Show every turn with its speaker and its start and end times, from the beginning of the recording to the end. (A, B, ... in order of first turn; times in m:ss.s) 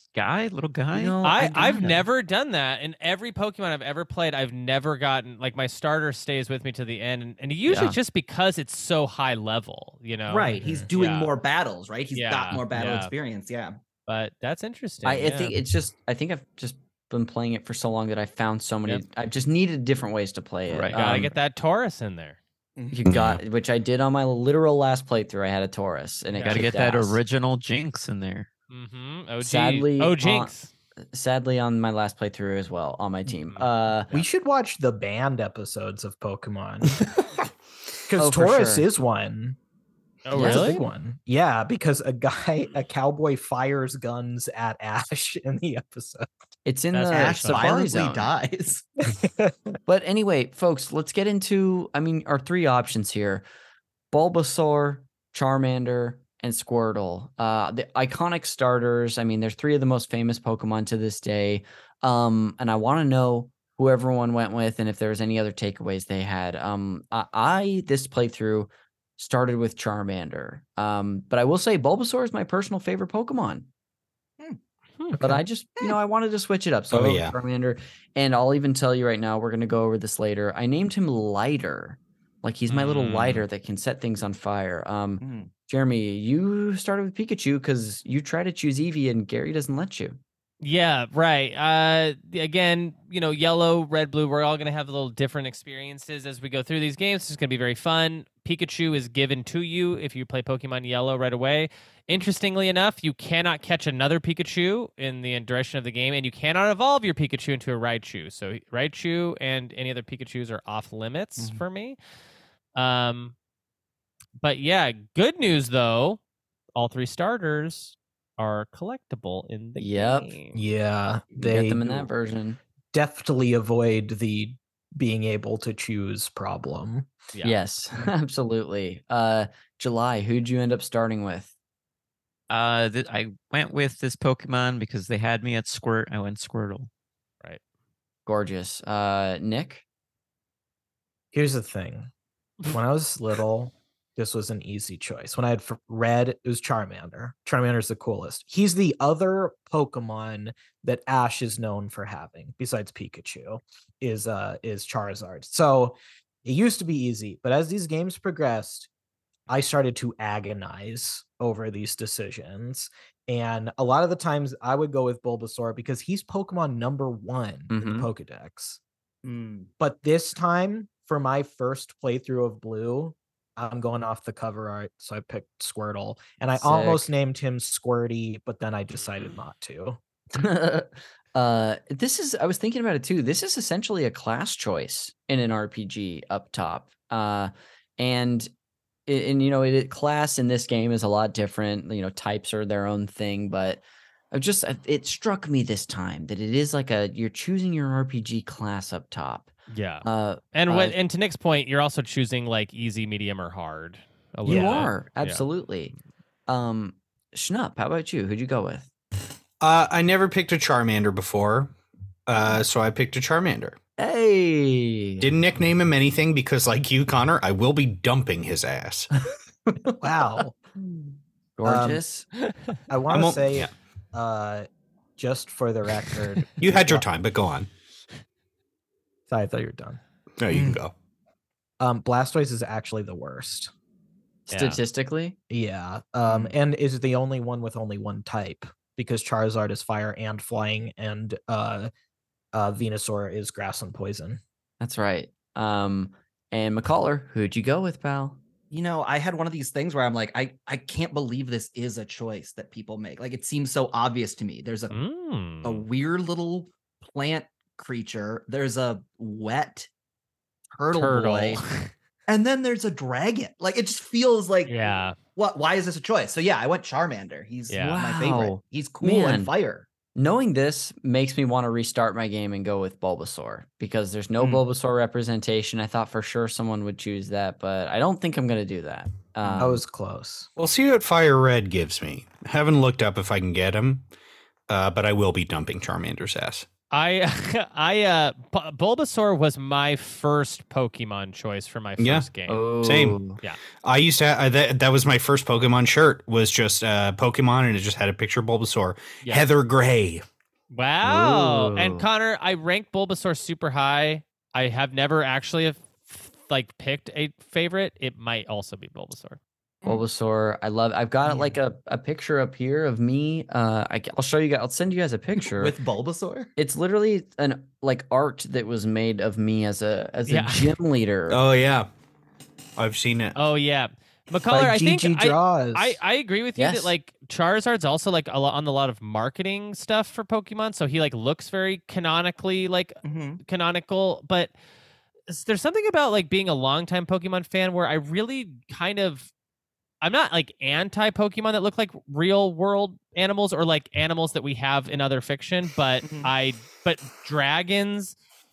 0:00.2-0:01.2 A
0:00.9-0:02.0 B
0:01.2-0:11.3 C
0:07.7-0:08.0 A
0:10.3-0:13.8 D
0:12.1-0:13.1 C
0:14.1-0:15.6 C
0:15.0-0:21.3 B
0:20.7-0:21.2 A
0:20.9-0:22.4 C
0:22.8-0:23.0 D
0:22.9-0:27.2 B
0:23.1-0:23.4 E
0:26.3-0:26.7 C
0:26.5-0:28.5 A
0:28.7-0:30.7 C
0:29.4-0:30.5 B
0:31.1-0:34.1 B
0:33.5-0:34.2 C
0:34.1-0:36.9 F
0:38.1-0:39.6 F
0:38.2-0:38.9 B
0:40.2-0:40.8 C
0:40.3-0:40.9 B
0:40.3-0:46.3 F
0:46.6-0:48.3 B
0:46.9-0:47.7 C
0:47.1-0:48.8 D
0:49.2-0:49.6 F
0:49.9-0:53.4 B
0:54.1-1:13.7 B
1:15.2-1:30.2 B
1:16.9-1:17.4 E
1:22.7-1:23.5 C
1:25.2-1:25.5 D
1:30.6-1:52.0 C
1:51.4-1:51.6 D
1:52.8-1:53.3 C
1:54.4-1:56.2 C
1:56.8-2:00.6 C
1:59.8-2:00.3 B
2:00.5-2:02.1 F
2:01.4-2:02.6 B
2:02.9-2:07.1 F
2:07.4-2:11.5 B
2:12.5-2:16.9 A
2:18.3-2:19.8 B
2:21.3-2:22.1 F
2:22.7-2:38.9 F
2:39.5-2:48.8 F
2:47.7-2:48.1 B
2:49.2-2:49.7 D
2:49.8-3:00.0 F
2:56.6-2:57.1 B
3:00.3-3:08.5 B
3:09.1-3:21.0 B
3:19.7-3:25.5 C
3:24.4-3:25.9 B
3:24.5-3:24.9 F
3:26.5-3:28.9 B
3:29.6-3:31.7 E
3:32.3-3:33.8 E
3:34.0-3:35.3 B
3:35.2-3:39.1 E
3:40.0-3:40.6 F
3:40.8-3:42.3 B
3:41.7-3:42.0 F
3:42.9-3:47.1 F
3:43.1-3:43.7 E
3:46.6-3:47.7 E
3:49.3-3:50.0 F
3:50.4-3:50.9 E
3:50.5-3:50.8 D
3:51.8-3:53.7 F
3:54.5-3:55.4 B
3:54.5-3:54.8 C
3:55.5-4:01.9 F
3:56.3-3:56.5 D
4:02.5-4:04.4 F
4:04.8-4:08.4 B
4:08.7-4:14.9 D
4:14.9-4:15.8 C
4:15.6-4:19.9 D
4:20.7-4:21.6 D
4:20.9-4:21.9 C
4:22.3-4:29.9 D
4:24.7-4:25.2 C
4:27.7-4:28.0 C
4:27.8-4:29.5 B
4:30.1-4:39.8 B
4:34.4-4:34.6 D
4:39.4-4:39.7 D
4:39.6-4:40.5 F
4:40.6-4:44.1 E
4:44.7-4:46.7 E
4:46.9-4:52.6 C
4:52.0-4:52.3 E
4:52.5-4:53.4 B
4:52.8-4:53.2 E
4:53.8-5:00.2 E
5:00.7-5:09.4 C
5:01.0-5:02.1 B
5:09.8-5:15.8 B
5:11.2-5:11.6 D
5:15.4-5:16.5 D
5:16.6-5:21.4 B
5:20.3-5:20.7 C
5:21.3-5:21.9 E
5:22.8-5:23.4 E
5:23.4-5:34.5 C
5:24.5-5:26.0 F
5:26.6-5:26.9 B
5:33.0-5:33.4 D
5:35.3-5:39.3 C
5:40.0-5:48.2 C
5:46.0-5:46.3 D